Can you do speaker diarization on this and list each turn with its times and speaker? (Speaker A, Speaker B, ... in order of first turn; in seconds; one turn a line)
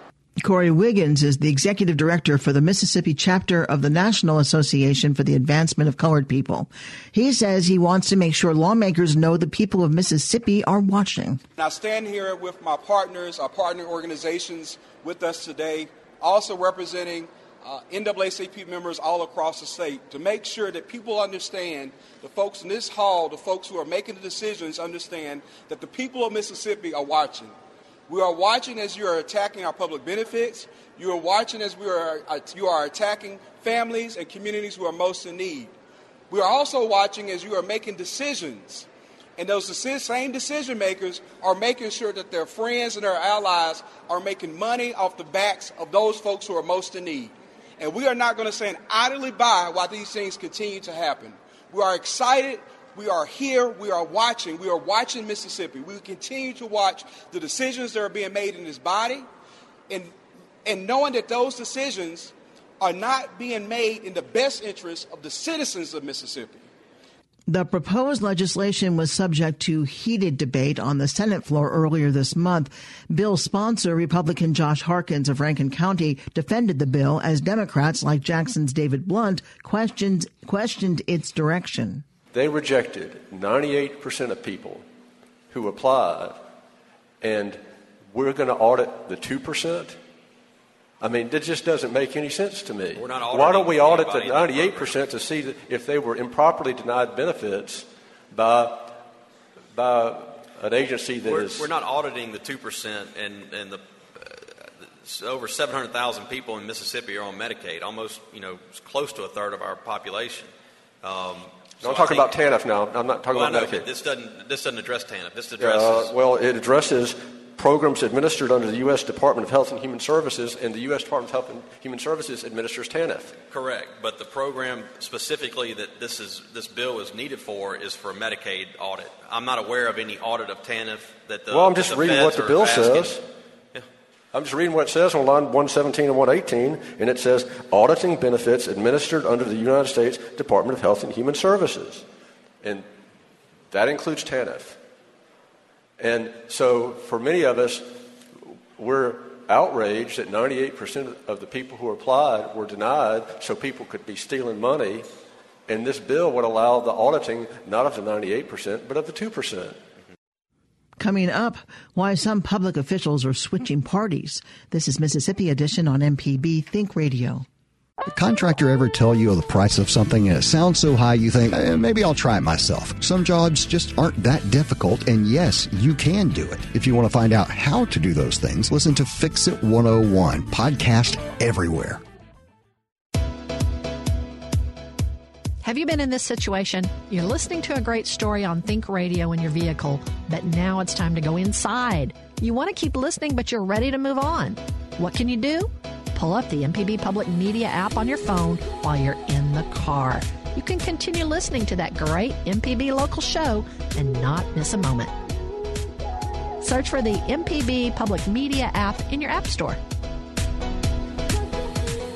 Speaker A: 0.4-11.4
Speaker B: 11.6-27.6
Speaker B: 28.1-35.7
Speaker B: 36.3-59.3
Speaker B: 60.6-66.7
Speaker A: 67.5-82.0
Speaker C: 82.3-84.8
Speaker C: 85.5-86.5
Speaker C: 87.2-87.6
Speaker C: 88.1-90.0
Speaker C: 91.0-99.0
Speaker D: 93.0-95.0
Speaker C: 99.8-101.7
Speaker D: 101.2-110.5
Speaker D: 111.0-112.4
Speaker C: 111.8-113.9
Speaker D: 113.3-116.1
Speaker C: 115.6-123.4
Speaker D: 123.5-133.2
Speaker C: 131.5-133.2
Speaker C: 134.3-142.1
Speaker C: 143.7-144.8
Speaker C: 146.0-148.0
Speaker C: 148.8-155.1
Speaker C: 155.7-159.8
Speaker A: 161.0-167.5
Speaker E: 168.1-182.0
Speaker F: 185.6-205.1
Speaker F: 206.6-209.8